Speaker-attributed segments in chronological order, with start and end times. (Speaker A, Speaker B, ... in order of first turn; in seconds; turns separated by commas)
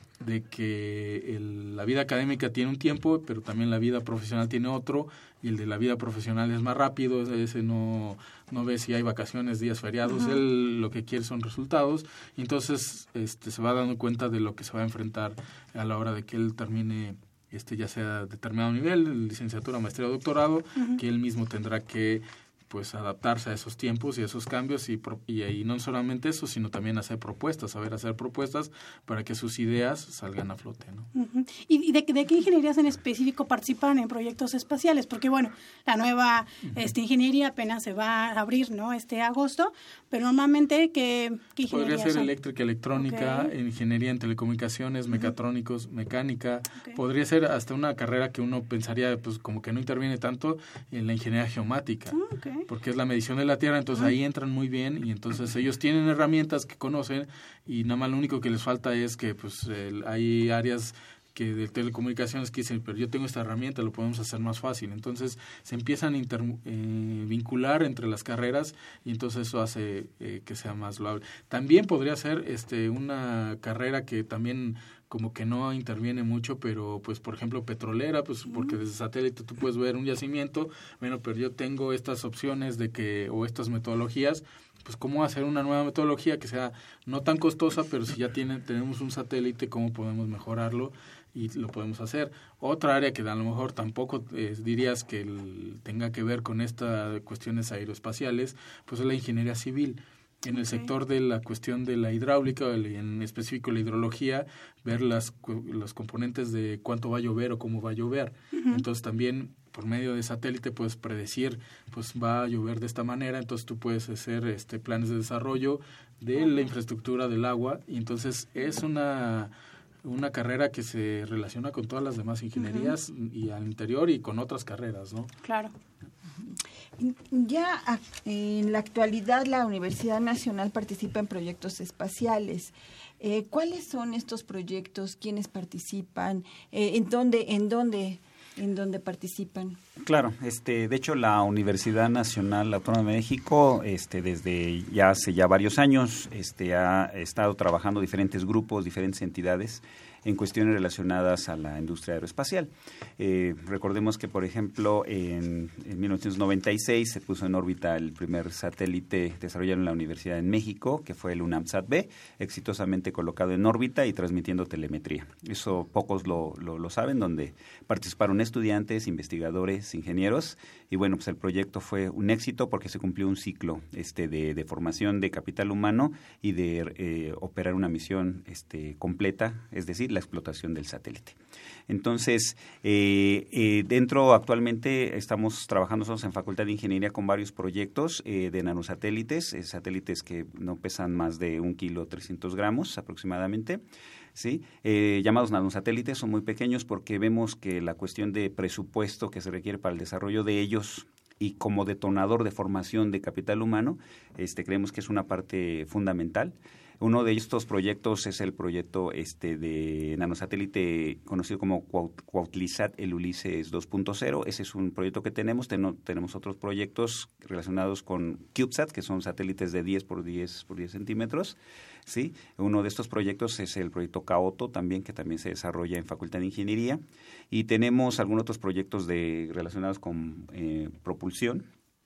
Speaker A: 0.2-31.1, Speaker B: 10.0-10.4, Speaker B: 31.1-42.3, Speaker A: 41.7-52.1, Speaker B: 42.9-43.5, Speaker B: 52.1-52.6, Speaker A: 52.7-119.5, Speaker B: 78.5-78.7, Speaker B: 100.5-100.9, Speaker B: 108.5-108.8, Speaker B: 116.4-116.7, Speaker A: 120.0-125.3, Speaker B: 122.5-123.0, Speaker B: 125.4-125.7, Speaker C: 127.0-139.8, Speaker D: 140.0-181.4, Speaker D: 181.9-193.8, Speaker D: 194.3-231.7